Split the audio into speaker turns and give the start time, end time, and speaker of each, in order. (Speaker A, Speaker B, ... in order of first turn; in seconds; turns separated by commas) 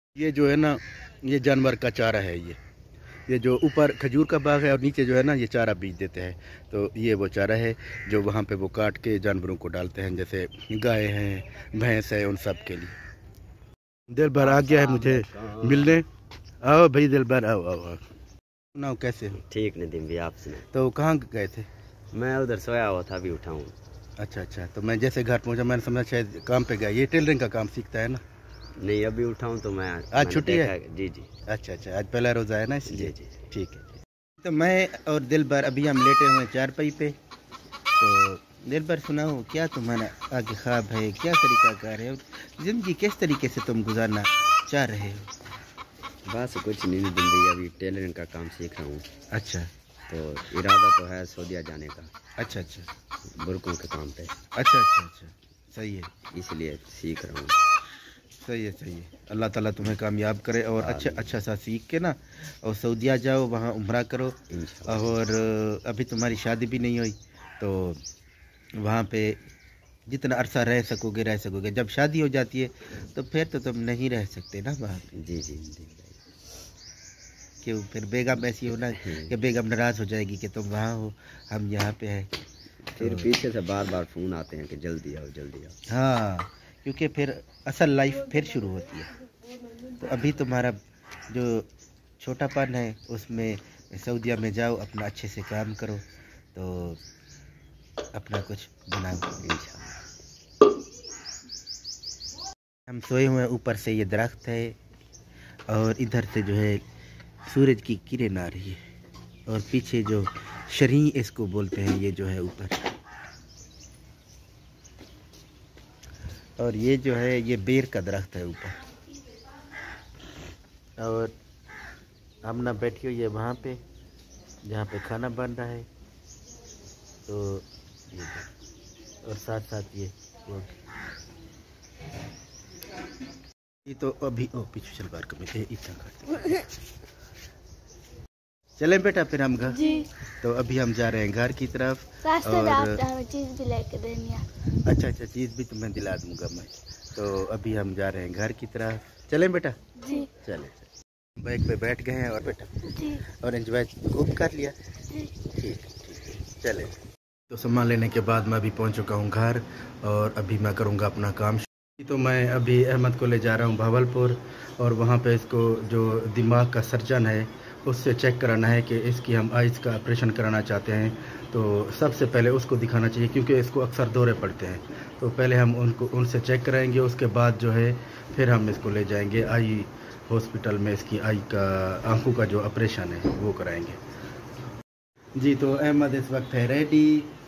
Speaker A: 0.1-2.6, Speaker A: 3.3-13.0, Speaker A: 14.1-16.1, Speaker B: 14.4-16.0, Speaker A: 16.6-18.0, Speaker A: 18.7-19.4, Speaker B: 19.3-20.6, Speaker A: 20.7-21.7, Speaker B: 22.1-23.8, Speaker A: 24.2-28.2, Speaker B: 28.8-31.3, Speaker A: 30.1-30.7, Speaker A: 31.5-37.1, Speaker B: 32.9-33.4, Speaker A: 38.0-45.3, Speaker B: 46.2-49.0, Speaker A: 49.3-49.7, Speaker B: 50.1-52.1, Speaker A: 52.4-52.9, Speaker B: 53.3-54.4, Speaker A: 54.5-56.1, Speaker B: 56.3-57.5, Speaker A: 58.4-68.0, Speaker B: 60.8-61.3, Speaker B: 64.5-65.1, Speaker A: 68.8-69.4, Speaker A: 70.1-75.1, Speaker B: 75.2-76.2, Speaker A: 77.6-82.3, Speaker B: 78.8-79.3, Speaker B: 82.9-85.8, Speaker A: 83.0-83.3, Speaker A: 85.9-89.1, Speaker A: 89.9-97.0, Speaker A: 98.1-99.4, Speaker B: 99.4-99.9, Speaker A: 102.9-104.8, Speaker A: 105.7-106.8, Speaker A: 107.5-108.8, Speaker A: 109.5-112.8, Speaker A: 116.6-118.8, Speaker A: 121.0-121.3, Speaker A: 122.4-123.8, Speaker A: 124.6-125.9, Speaker A: 127.3-128.4, Speaker A: 129.2-130.8, Speaker A: 133.8-136.7, Speaker A: 138.8-143.0, Speaker C: 139.7-140.1, Speaker C: 142.2-144.4, Speaker A: 144.8-150.9, Speaker A: 151.4-154.8, Speaker C: 152.9-153.2, Speaker A: 155.4-156.9, Speaker A: 157.5-184.0, Speaker A: 185.3-187.3